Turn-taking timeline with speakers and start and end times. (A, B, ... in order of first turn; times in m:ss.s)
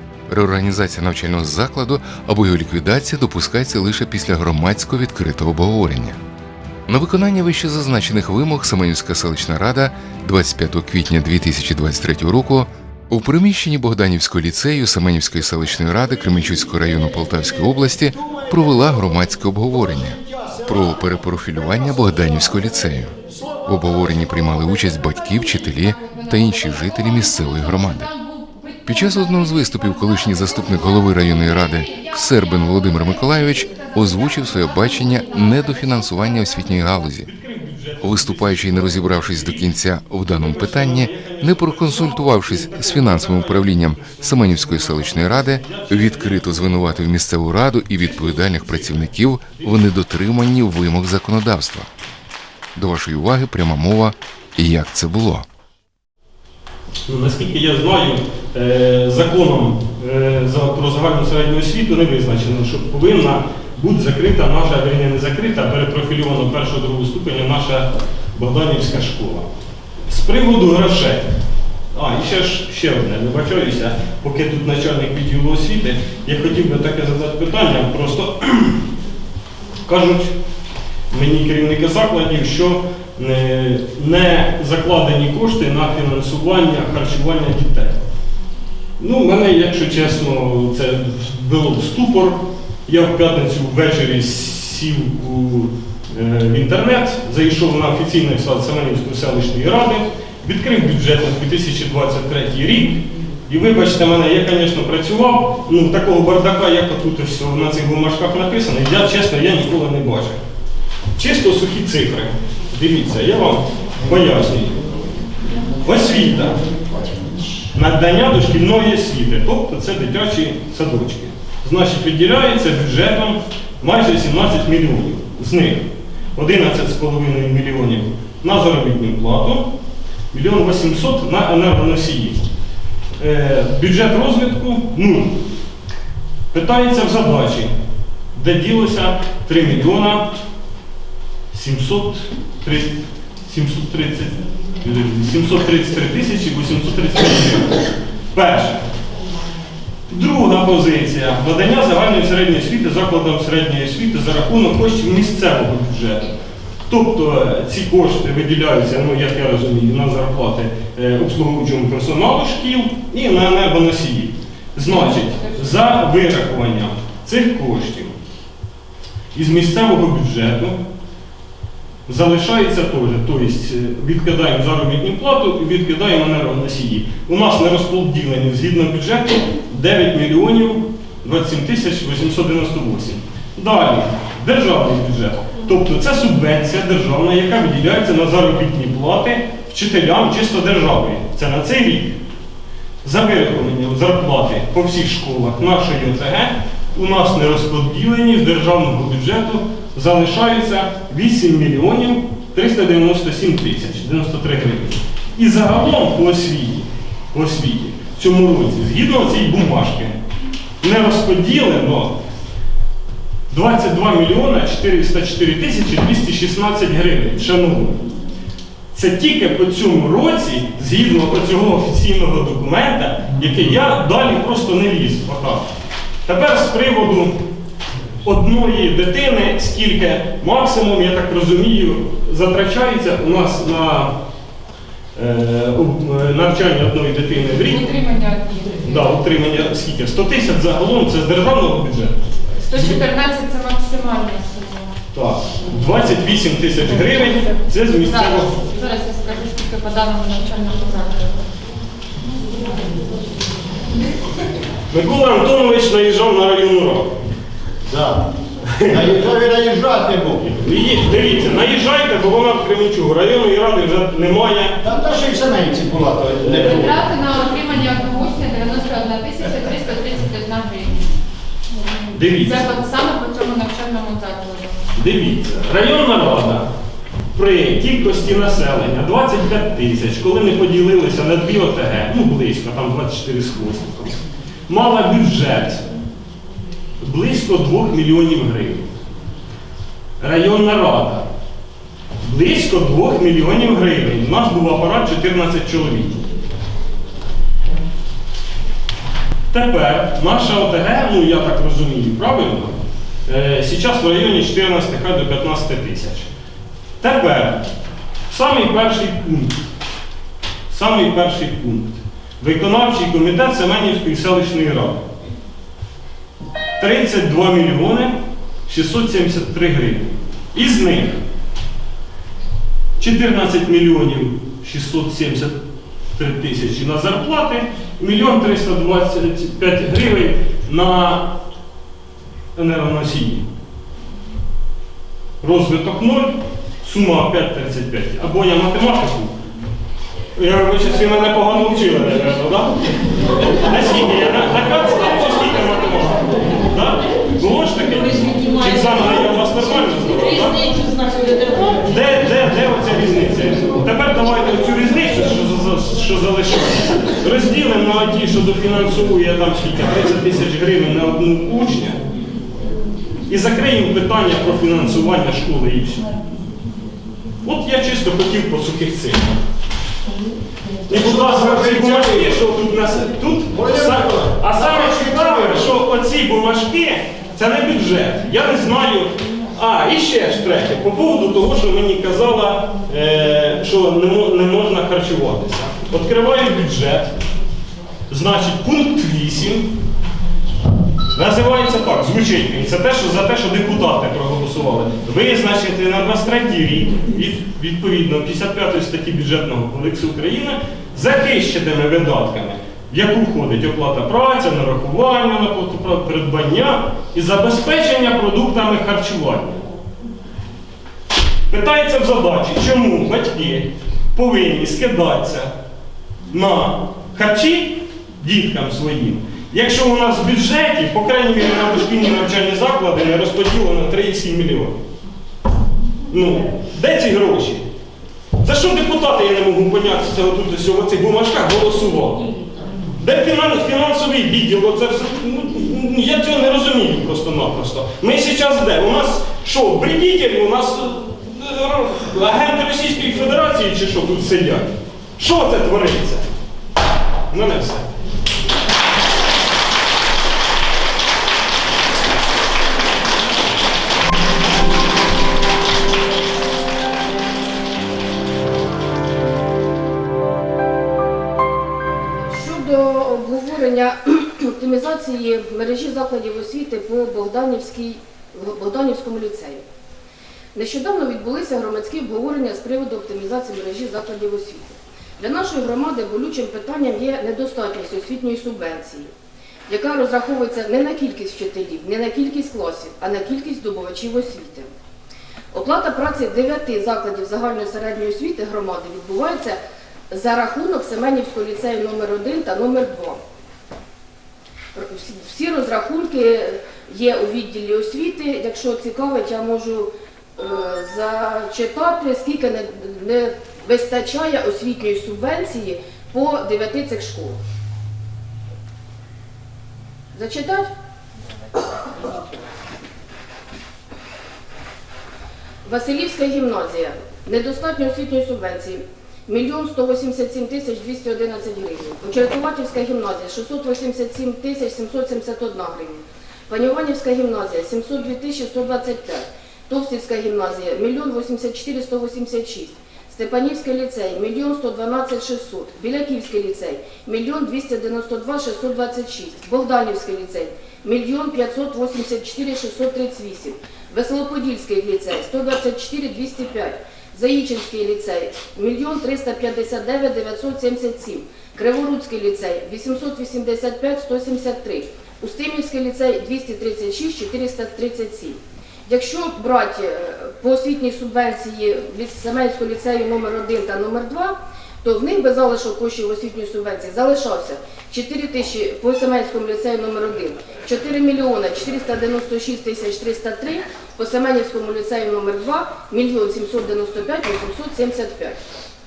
0:00.3-0:06.2 A
0:06.9-0:28.1 A
0:27.6-0:29.0 B
0:28.8-0:37.3 A
0:33.8-0:35.5 B
0:36.6-0:47.1 C
0:38.0-0:51.9 A
0:47.9-0:49.9 C
0:52.8-0:55.4 A
0:57.1-1:09.5 C
1:10.1-1:11.3 C
1:11.9-1:18.8 C
1:19.8-1:20.3 C
1:21.1-1:28.0 C
1:29.0-1:50.4 C
1:51.2-1:54.8 C
1:55.8-1:56.6 C
1:57.7-2:09.7 C
2:10.3-2:12.4 C
2:13.2-2:15.4 C
2:16.5-2:17.7 C
2:18.3-2:20.4 C
2:21.5-2:28.8 C
2:30.1-2:36.3 C
2:36.9-2:48.2 C
2:49.3-2:50.8 C
2:52.1-3:12.2 C
3:13.0-3:30.2 C
3:30.8-3:32.2 C
3:33.5-3:38.2 C
3:38.9-3:45.6 C
3:46.2-3:47.4 C
3:48.2-3:54.1 C
3:55.2-3:58.0 C
3:57.6-3:59.1 B
3:58.8-4:02.2 C
4:02.6-4:05.0 B
4:02.7-4:03.0 C
4:05.1-4:08.6 C
4:07.9-4:11.4 B
4:14.9-4:17.1 C
4:17.9-4:18.2 D
4:18.7-4:19.1 C
4:18.9-4:20.4 D
4:20.5-4:24.8 C
4:24.8-4:26.9 D
4:26.4-4:26.9 C
4:26.5-4:31.1 B
4:32.1-4:32.7 C
4:32.4-4:34.8 B
4:34.9-4:36.6 C
4:37.3-4:45.8 C
4:47.0-4:48.9 C
4:50.2-4:51.2 C
4:52.2-4:56.3 C
4:59.5-5:02.7 C
5:03.2-5:06.3 C
5:07.0-5:07.7 C
5:08.3-5:09.5 C
5:10.7-5:15.0 C
5:16.8-5:21.2 C
5:23.0-5:25.6 C
5:26.2-5:31.3 C
5:32.5-5:33.5 C
5:35.4-5:39.3 C
5:40.3-5:42.8 C
5:43.4-5:50.8 C
5:51.8-6:02.0 C
6:03.3-6:06.0 C
6:07.4-6:09.3 C
6:10.9-6:27.1 C
6:10.9-6:12.4 D
6:13.5-6:15.6 D
6:28.1-6:29.7 C
6:31.1-6:49.6 C
6:51.5-6:55.5 C
6:56.3-7:04.8 C
7:06.1-7:07.6 C
7:08.4-7:12.3 C
7:13.0-7:26.3 C
7:27.3-7:27.9 C
7:42.2-7:49.6 E
7:50.5-7:59.1 E
7:59.7-8:04.7 E
8:05.5-8:09.6 E
8:10.1-8:13.2 E
8:14.7-8:27.4 E
8:30.1-8:30.7 E
8:35.6-9:38.4 E